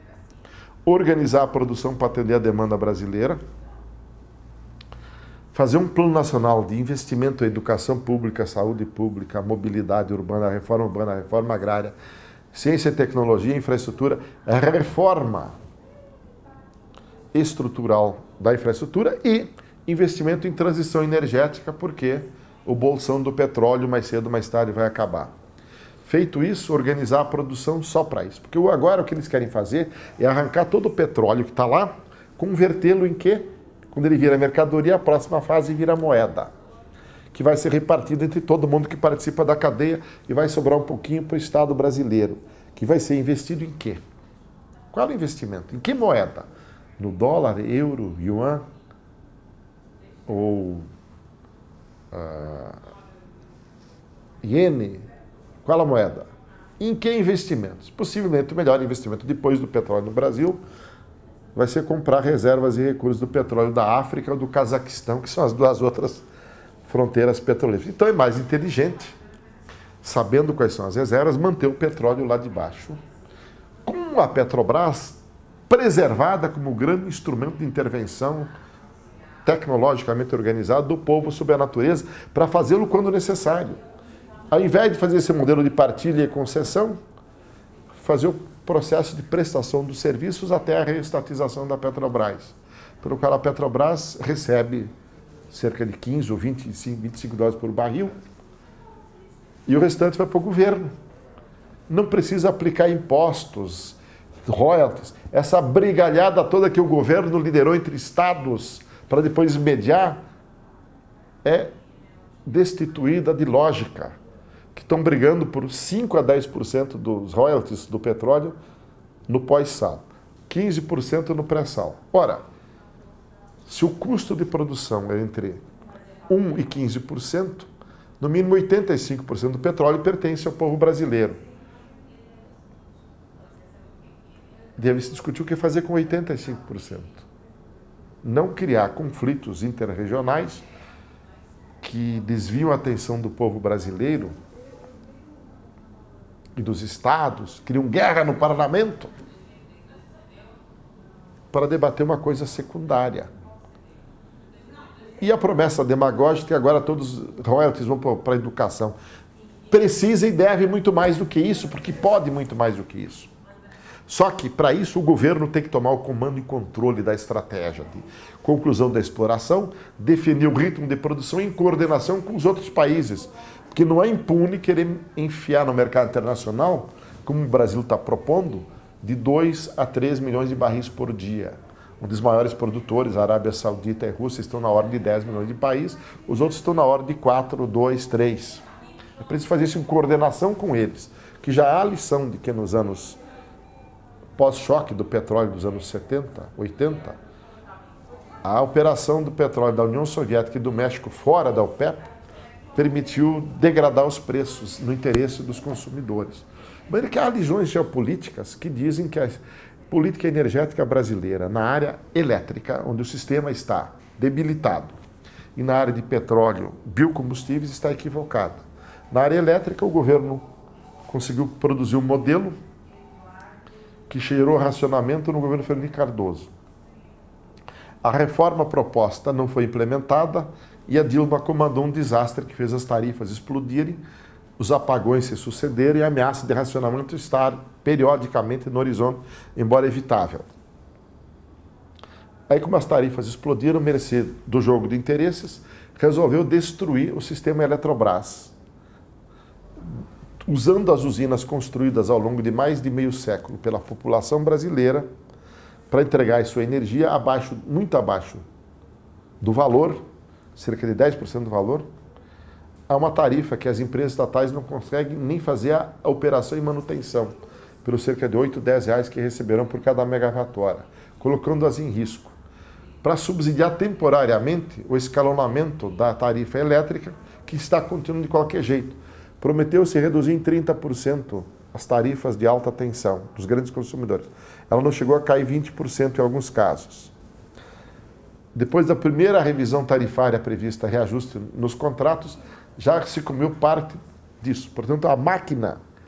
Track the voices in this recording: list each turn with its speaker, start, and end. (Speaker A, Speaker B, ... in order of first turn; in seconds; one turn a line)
Speaker A: 0.9-3.4
Speaker A: 5.5-11.9
Speaker A: 12.5-15.6
Speaker A: 17.3-25.3
Speaker A: 26.1-36.5
Speaker A: 37.3-44.0
Speaker A: 44.9-46.5
Speaker A: 47.0-48.6
Speaker A: 50.3-50.9
Speaker A: 52.1-52.8
Speaker A: 54.4-55.1
Speaker A: 55.6-56.3
Speaker A: 56.8-60.6
Speaker A: 61.5-66.2
Speaker A: 66.9-69.2
Speaker A: 70.0-73.0
Speaker A: 73.8-78.5
Speaker A: 79.5-83.8
Speaker A: 84.5-87.0
Speaker A: 87.9-94.9
Speaker A: 95.5-98.2
Speaker A: 99.7-100.9
Speaker A: 101.9-110.2
Speaker A: 111.4-111.7
Speaker A: 112.5-114.2
Speaker A: 114.8-118.6
Speaker A: 119.3-122.5
Speaker A: 123.7-125.7
Speaker A: 126.3-131.4
Speaker A: 134.8-137.3
Speaker A: 138.2-140.7
Speaker A: 141.8-144.4
Speaker A: 146.6-149.1
Speaker A: 151.5-153.3
Speaker A: 155.2-158.9
Speaker A: 159.7-163.3
Speaker A: 164.1-188.6
Speaker A: 189.2-193.2
Speaker A: 194.4-197.2
Speaker A: 198.4-202.1
Speaker A: 202.8-215.0
Speaker A: 215.6-220.5
Speaker A: 221.1-222.6
Speaker A: 224.1-226.5
Speaker A: 228.0-234.0
Speaker A: 234.6-240.5
Speaker A: 242.5-248.5
Speaker A: 250.4-255.1
Speaker A: 255.9-258.4
Speaker A: 259.4-260.0
Speaker A: 260.6-261.9
Speaker A: 262.9-272.4
Speaker A: 273.0-287.1
Speaker A: 288.6-295.8